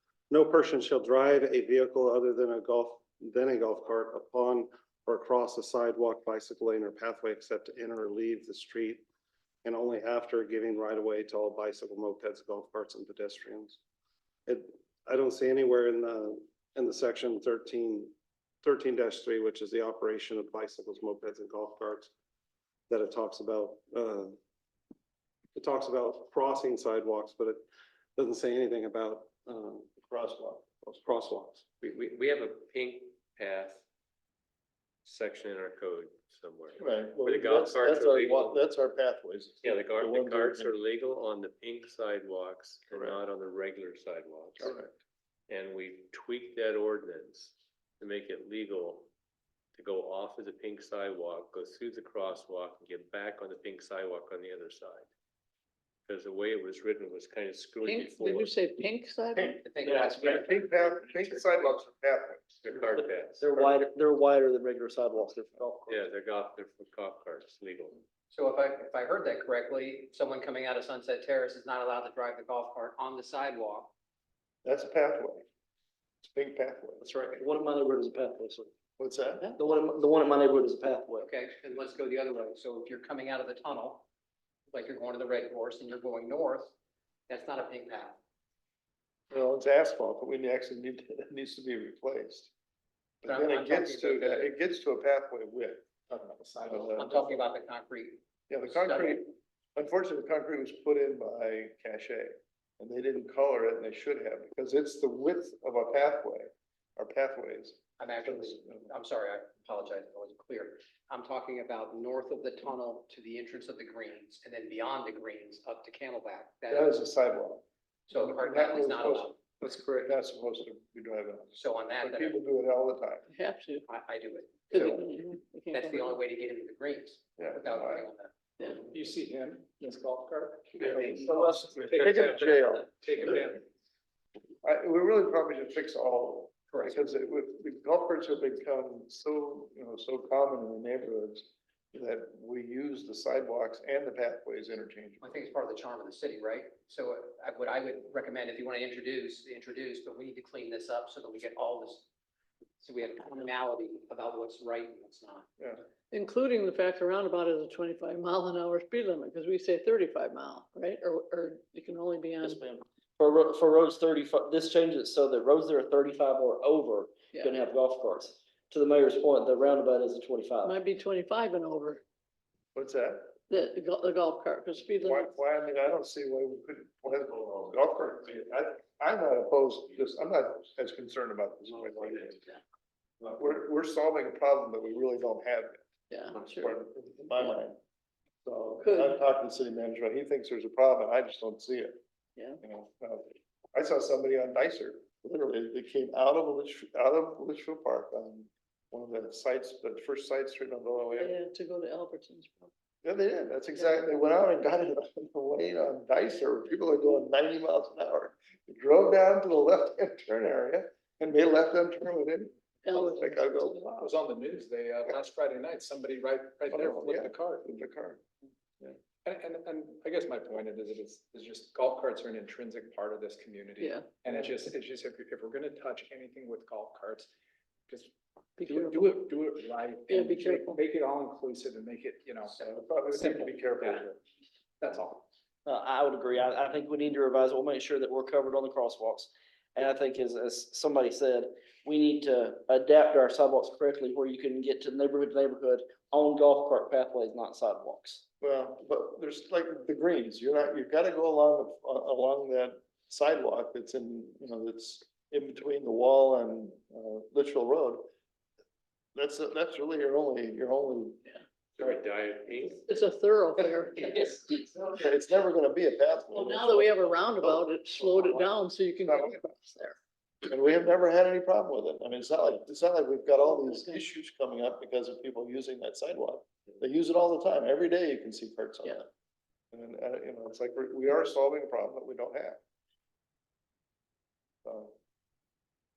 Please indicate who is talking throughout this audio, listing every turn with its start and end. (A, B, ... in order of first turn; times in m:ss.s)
0:00.3-0:09.0 A
0:09.6-0:13.8 A
0:14.5-0:22.1 A
0:22.9-0:24.4 A
0:25.6-0:27.6 A
0:28.2-0:29.9 A
0:30.0-0:30.8 B
0:30.8-0:31.8 A
0:31.8-0:33.8 C
0:35.0-0:38.6 C
0:36.8-0:40.7 B
0:39.6-0:44.8 C
0:42.9-0:43.2 B
0:44.6-0:44.9 B
0:45.5-0:49.1 C
0:49.8-0:55.1 C
0:56.1-0:58.6 C
0:57.8-0:59.6 D
0:59.4-1:02.6 B
0:59.6-1:01.6 E
1:02.6-1:03.4 C
1:03.0-1:06.0 F
1:05.9-1:08.0 C
1:08.3-1:13.9 E
1:14.6-1:15.4 B
1:16.2-1:17.0 B
1:17.0-1:18.7 F
1:19.0-1:19.5 B
1:19.6-1:21.3 F
1:21.2-1:24.1 E
1:24.7-1:26.7 E
1:27.3-1:28.2 E
1:29.3-1:32.5 B
1:33.2-1:35.8 B
1:33.2-1:34.5 E
1:36.1-1:37.2 G
1:36.7-1:37.2 B
1:36.9-1:39.2 E
1:38.5-1:48.9 B
1:48.0-1:57.0 E
1:56.7-2:03.2 B
1:58.1-1:59.4 E
2:01.6-2:02.4 E
2:03.3-2:03.9 D
2:03.9-2:05.0 E
2:04.7-2:06.2 D
2:04.7-2:05.0 B
2:05.7-2:08.3 E
2:07.4-2:08.1 B
2:08.9-2:13.6 G
2:10.9-2:13.4 B
2:14.6-2:25.4 B
2:16.7-2:17.0 E
2:25.2-2:32.1 E
2:32.8-2:35.5 E
2:36.1-2:42.6 D
2:42.4-2:50.8 F
2:50.6-2:52.0 D
2:52.8-2:53.3 B
2:53.5-2:55.3 D
2:55.0-3:02.6 B
3:03.2-3:05.8 B
3:06.1-3:06.8 D
3:06.4-3:07.8 B
3:08.4-3:12.0 B
3:08.8-3:09.2 D
3:12.6-3:21.4 B
3:21.2-3:22.7 D
3:23.0-3:34.2 B
3:23.8-3:24.1 D
3:32.8-3:33.2 D
3:34.0-3:37.6 G
3:36.7-3:38.2 B
3:39.2-3:47.3 G
3:43.8-3:44.1 D
3:47.9-3:54.0 G
3:48.6-3:49.2 D
3:50.1-3:50.8 D
3:52.5-3:54.2 B
3:54.8-3:55.2 G
3:55.7-4:08.2 F
4:08.4-4:18.1 B
4:19.2-4:21.2 B
4:21.8-4:22.8 C
4:22.9-4:24.7 D
4:24.8-4:28.5 B
4:26.3-4:30.0 D
4:29.0-4:29.3 B
4:30.5-4:39.1 B
4:33.4-4:34.0 D
4:39.7-4:42.6 B
4:44.6-4:44.9 B